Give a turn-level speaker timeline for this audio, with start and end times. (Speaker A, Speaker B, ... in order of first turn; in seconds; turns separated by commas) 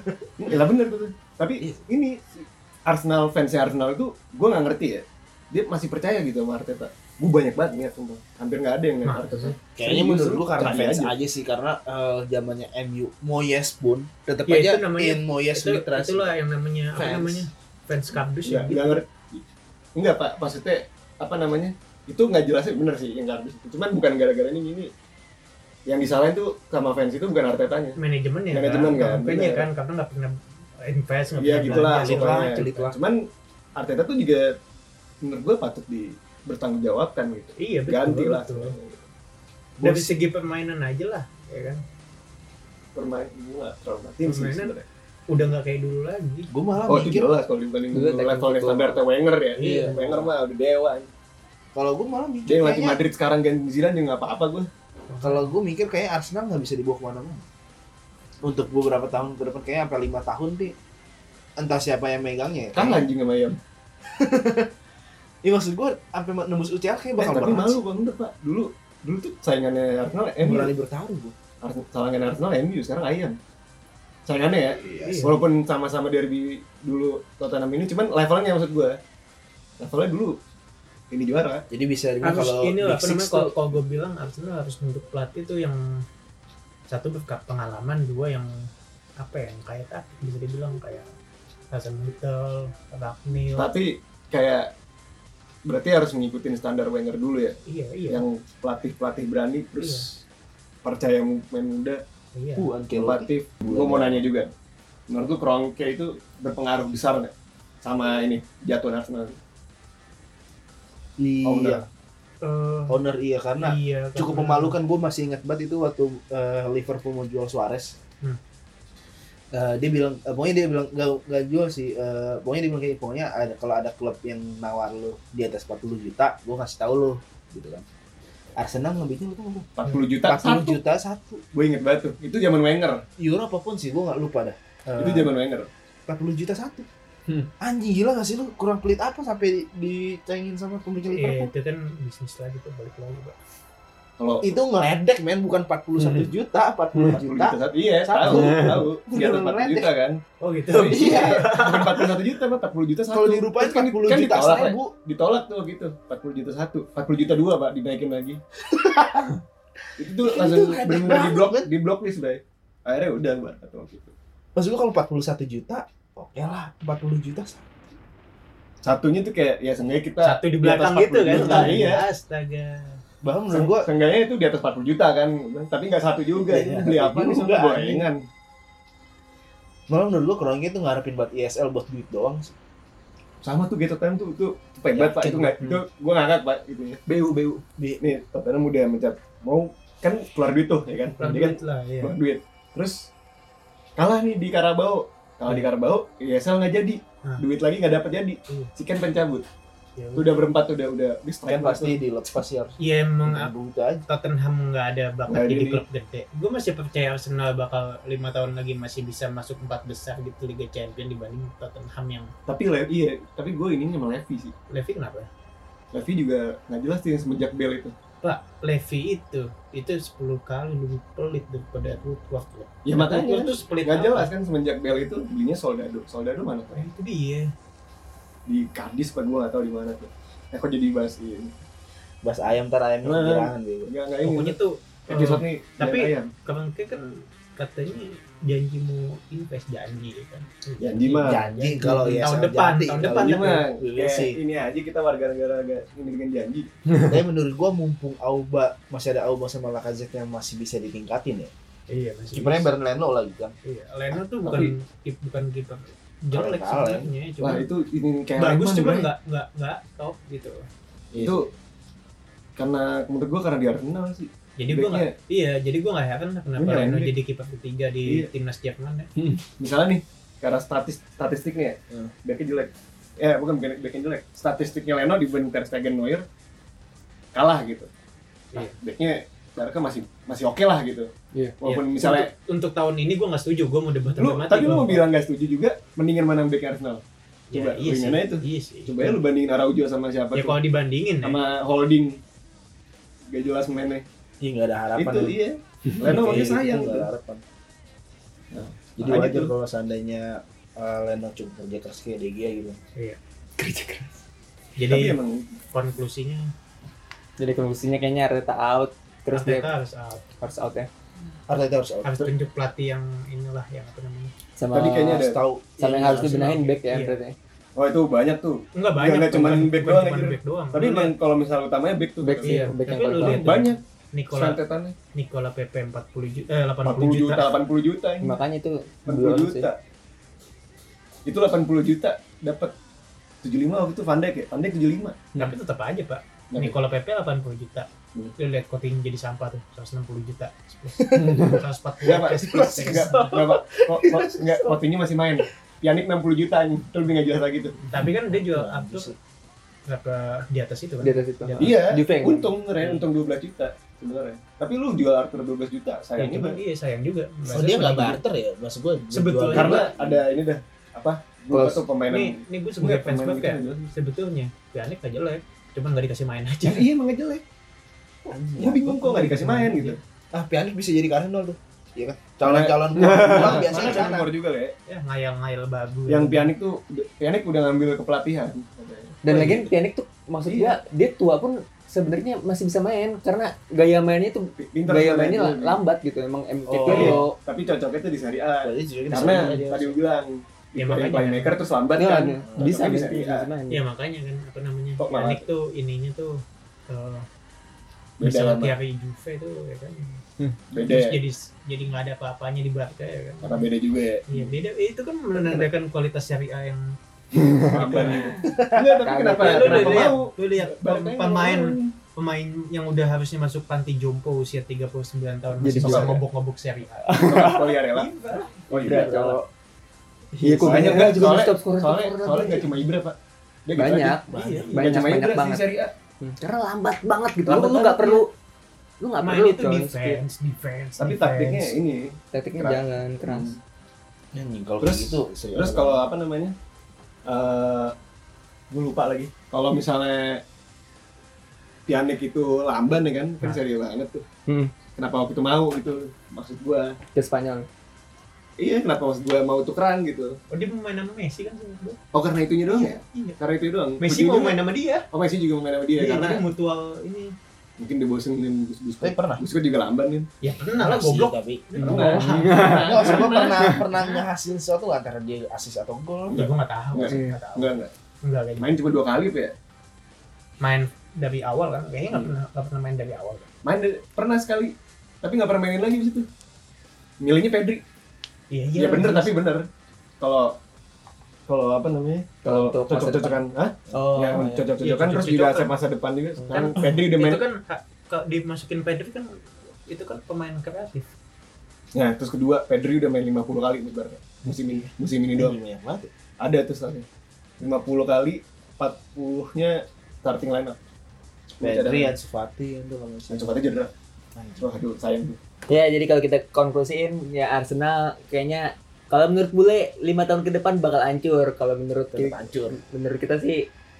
Speaker A: 0.4-11.1, Speaker B: 9.0-9.6, Speaker C: 9.8-16.3, Speaker B: 14.5-19.0, Speaker C: 17.0-17.5, Speaker A: 18.4-19.4, Speaker A: 20.0-24.9, Speaker A: 25.9-28.0, Speaker B: 28.0-32.9, Speaker A: 28.5-29.7, Speaker A: 31.4-33.2, Speaker C: 31.6-33.0, Speaker A: 33.8-34.6, Speaker A: 35.2-39.0, Speaker B: 37.6-38.8, Speaker C: 39.8-40.2, Speaker B: 39.8-41.8, Speaker A: 43.0-44.9, Speaker B: 44.2-44.8, Speaker B: 45.3-46.5, Speaker C: 46.5-47.3, Speaker A: 46.9-51.1, Speaker D: 47.9-49.0, Speaker B: 49.6-50.0, Speaker D: 49.6-50.2, Speaker C: 51.8-53.0, Speaker A: 52.5-54.7, Speaker B: 55.1-55.5, Speaker C: 55.2-57.4, Speaker C: 58.4-60.8, Speaker C: 61.6-63.1, Speaker A: 62.7-63.6, Speaker C: 64.1-64.7, Speaker C: 65.4-67.8, Speaker A: 67.2-70.7, Speaker C: 70.4-71.3, Speaker A: 71.6-73.4, Speaker A: 74.3-79.0, Speaker C: 74.8-75.3, Speaker B: 75.0-75.3, Speaker A: 79.8-80.3, Speaker A: 81.1-81.7, Speaker C: 81.7-83.6, Speaker B: 82.2-85.8, Speaker B: 86.9-88.5, Speaker B: 89.2-91.1, Speaker B: 91.7-93.7, Speaker A: 93.5-94.7, Speaker A: 95.7-97.6, Speaker B: 97.7-98.2, Speaker A: 98.1-100.2, Speaker B: 99.8-100.1, Speaker A: 100.8-102.0, Speaker B: 102.3-102.7, Speaker C: 102.6-104.2, Speaker A: 102.9-104.5, Speaker A: 105.1-107.3, Speaker A: 107.8-109.4, Speaker C: 111.2-111.9, Speaker A: 111.4-111.8, Speaker B: 112.4-113.0, Speaker C: 112.9-118.0, Speaker B: 113.6-114.8, Speaker C: 119.5-127.9, Speaker C: 128.6-129.7, Speaker A: 129.8-130.8, Speaker C: 130.2-131.4, Speaker A: 131.5-133.0, Speaker C: 133.2-135.3, Speaker A: 135.0-135.7, Speaker C: 136.1-136.9, Speaker C: 137.6-141.5, Speaker B: 141.1-143.4, Speaker A: 144.2-144.5, Speaker C: 144.4-149.9, Speaker A: 147.2-150.2, Speaker B: 148.2-148.7, Speaker B: 150.4-152.1, Speaker A: 150.7-158.4, Speaker C: 150.9-151.4, Speaker C: 153.1-154.9, Speaker C: 158.6-161.7, Speaker A: 160.0-164.1, Speaker C: 164.6-167.7, Speaker A: 168.8-172.0, Speaker B: 170.2-173.0, Speaker C: 171.3-171.9, Speaker C: 173.2-173.9, Speaker A: 173.5-178.2, Speaker C: 176.5-178.1, Speaker C: 179.9-182.5, Speaker A: 183.4-187.0, Speaker C: 184.9-185.8, Speaker D: 187.1-187.6, Speaker A: 188.0-193.1, Speaker B: 191.2-192.2, Speaker A: 194.0-199.4, Speaker B: 200.0-200.3, Speaker A: 200.2-202.0, Speaker C: 201.5-204.1, Speaker B: 202.8-203.5, Speaker B: 204.1-212.3, Speaker A: 205.3-205.8, Speaker A: 212.5-214.5, Speaker B: 214.7-215.3, Speaker A: 215.9-217.9, Speaker B: 218.2-224.3, Speaker A: 222.8-226.9, Speaker B: 226.7-227.5, Speaker A: 228.5-231.5, Speaker C: 232.2-233.9, Speaker A: 233.0-234.6, Speaker B: 234.2-243.7, Speaker A: 235.1-236.3, Speaker A: 240.8-241.4, Speaker C: 241.2-244.4, Speaker D: 241.8-242.1, Speaker A: 243.1-246.7, Speaker C: 247.1-251.5, Speaker B: 251.9-252.7, Speaker C: 252.3-253.6, Speaker B: 253.7-257.7, Speaker A: 254.4-254.7, Speaker C: 256.3-257.1, Speaker A: 257.4-259.1, Speaker B: 258.4-260.7, Speaker C: 261.1-261.4, Speaker A: 261.2-261.5, Speaker A: 262.6-265.1, Speaker B: 264.6-269.1, Speaker A: 266.6-267.1, Speaker A: 269.6-276.2, Speaker A: 277.3-277.9, Speaker A: 278.5-281.1, Speaker A: 281.6-282.3, Speaker B: 281.6-285.0, Speaker A: 284.1-287.0, Speaker B: 287.5-289.2, Speaker A: 287.5-290.6, Speaker B: 290.3-291.4, Speaker A: 291.2-292.2, Speaker A: 293.3-294.0, Speaker C: 294.4-295.4, Speaker A: 295.0-297.1, Speaker C: 296.0-297.4, Speaker C: 299.0-302.8, Speaker A: 299.1-299.5, Speaker D: 303.6-304.2, Speaker B: 304.8-305.2, Speaker A: 304.9-305.5, Speaker B: 305.7-306.5, Speaker D: 307.4-309.7, Speaker B: 309.3-310.3, Speaker D: 310.4-310.9, Speaker C: 311.5-312.1, Speaker B: 312.0-314.3, Speaker D: 314.6-315.3, Speaker A: 314.7-315.4, Speaker C: 315.1-316.6, Speaker D: 315.8-317.4, Speaker B: 316.4-317.2, Speaker A: 317.8-323.8, Speaker B: 318.8-321.1, Speaker D: 322.2-323.6, Speaker B: 322.4-324.6, Speaker A: 324.3-325.0, Speaker B: 325.1-327.5, Speaker A: 326.9-328.4, Speaker D: 328.2-329.7, Speaker A: 329.1-329.8, Speaker A: 331.3-332.7, Speaker A: 333.4-335.4, Speaker B: 335.4-343.4, Speaker A: 336.5-336.8, Speaker C: 341.0-341.6, Speaker D: 341.2-341.6, Speaker A: 342.0-347.8, Speaker C: 342.5-344.7, Speaker B: 347.9-349.1, Speaker C: 348.0-349.2, Speaker B: 349.9-351.7, Speaker D: 351.0-353.1, Speaker A: 351.6-356.6, Speaker B: 356.2-358.2, Speaker C: 357.5-360.2, Speaker B: 359.1-359.9, Speaker A: 359.5-363.9, Speaker D: 361.5-361.9, Speaker B: 362.1-366.9, Speaker A: 366.7-367.4, Speaker C: 368.3-369.3, Speaker A: 368.6-370.0, Speaker B: 369.1-370.0, Speaker C: 370.3-374.3, Speaker A: 372.4-374.7, Speaker B: 374.9-376.5, Speaker A: 376.1-379.7, Speaker D: 379.2-387.4, Speaker A: 380.5-380.8, Speaker A: 384.6-385.8, Speaker C: 386.7-387.2, Speaker A: 386.9-393.5, Speaker C: 388.6-390.0, Speaker B: 390.8-391.6, Speaker D: 392.0-393.8, Speaker C: 392.4-392.9, Speaker B: 393.7-397.3, Speaker A: 395.0-395.5, Speaker A: 398.2-398.8, Speaker B: 398.2-400.2, Speaker A: 400.7-401.2, Speaker B: 400.8-403.7, Speaker A: 403.4-404.5, Speaker B: 404.3-407.0, Speaker A: 405.3-405.7, Speaker A: 407.3-411.9, Speaker D: 407.6-408.4, Speaker B: 407.7-408.3, Speaker C: 408.4-409.1, Speaker D: 409.0-410.1, Speaker B: 409.4-417.1, Speaker D: 415.6-416.1, Speaker A: 415.7-416.2, Speaker D: 417.0-417.8, Speaker A: 417.1-419.1, Speaker B: 417.9-418.6, Speaker C: 418.8-419.5, Speaker D: 418.8-419.4, Speaker D: 420.4-422.9, Speaker C: 420.5-421.2, Speaker A: 420.6-424.2, Speaker D: 423.8-425.6, Speaker C: 424.3-424.6, Speaker B: 424.3-424.7, Speaker A: 424.8-425.9, Speaker D: 426.2-428.3, Speaker A: 427.5-428.2, Speaker D: 429.0-430.2, Speaker B: 429.2-431.7, Speaker A: 431.0-433.6, Speaker D: 432.3-433.6, Speaker C: 434.3-436.0, Speaker A: 434.8-436.5, Speaker A: 437.3-437.9, Speaker A: 438.7-440.4, Speaker A: 441.9-444.2, Speaker D: 444.5-444.7, Speaker A: 445.0-446.9, Speaker D: 447.1-447.7, Speaker A: 448.6-450.4, Speaker B: 450.5-452.0, Speaker A: 452.1-454.6, Speaker B: 452.7-453.4, Speaker B: 454.0-455.1, Speaker A: 455.1-456.4, Speaker B: 456.0-457.3, Speaker A: 457.8-460.3, Speaker C: 459.0-459.4, Speaker B: 460.4-462.8, Speaker C: 460.8-461.8, Speaker D: 461.8-463.8, Speaker A: 461.8-463.8, Speaker C: 462.7-466.4, Speaker A: 466.3-467.9, Speaker B: 466.3-467.7, Speaker D: 467.0-467.4, Speaker B: 468.2-468.7, Speaker A: 468.6-469.5, Speaker B: 470.6-473.5, Speaker A: 473.6-476.3, Speaker A: 477.2-477.8, Speaker B: 478.5-479.3, Speaker A: 478.8-479.6, Speaker A: 480.2-480.6, Speaker A: 481.5-487.4, Speaker D: 482.4-483.4, Speaker C: 483.9-484.5, Speaker D: 483.9-484.7, Speaker B: 484.8-485.7, Speaker D: 486.4-486.8, Speaker B: 486.7-491.1, Speaker A: 491.9-495.6, Speaker C: 495.4-496.1, Speaker A: 496.4-497.1, Speaker A: 497.6-500.8, Speaker C: 501.6-503.6, Speaker A: 501.6-502.1, Speaker A: 503.3-503.9, Speaker C: 504.4-504.7, Speaker A: 504.6-505.4, Speaker D: 505.7-513.7, Speaker C: 512.1-512.8